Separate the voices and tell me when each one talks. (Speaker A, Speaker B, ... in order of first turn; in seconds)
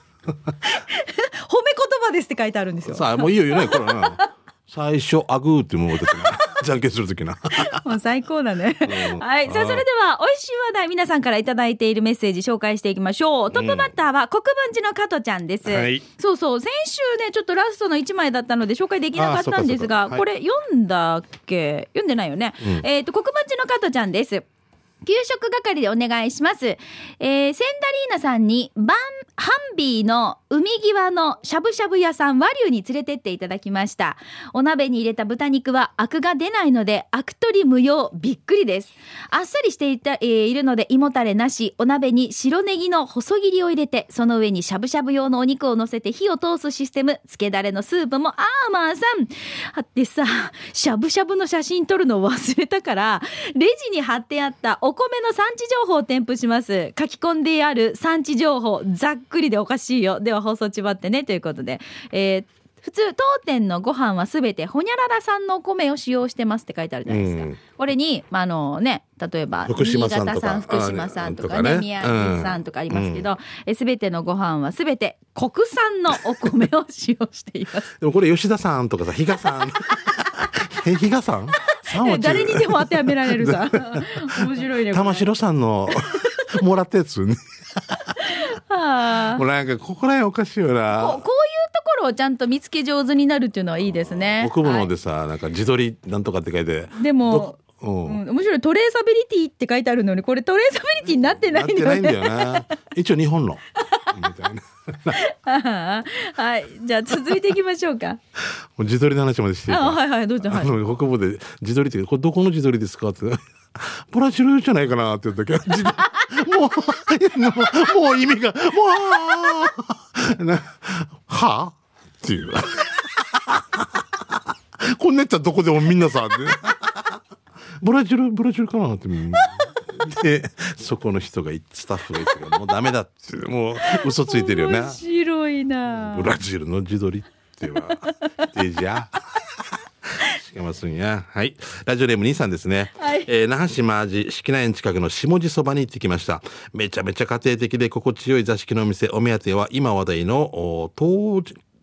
Speaker A: 0.6-4.3, 6.0-6.5, 7.5-24.4, 25.0-77.9, 81.7-85.3, 85.9-86.5, 88.2-89.4, 90.9-94.9, 96.9-102.6, 103.8-104.1, 105.1-108.2, 109.7-110.7, 116.0-116.3, 133.8-136.3, 137.9-138.5, 143.0-143.3
Speaker B: 2.9-7.9, 8.8-9.8, 13.5-13.9, 15.7-16.0, 19.2-20.2, 67.1-67.6, 69.7-73.3, 78.0-88.2, 89.3-91.2, 94.0-98.2, 101.2-105.2, 108.8-127.1, 127.8-135.0, 135.9-139.6, 140.2-151.6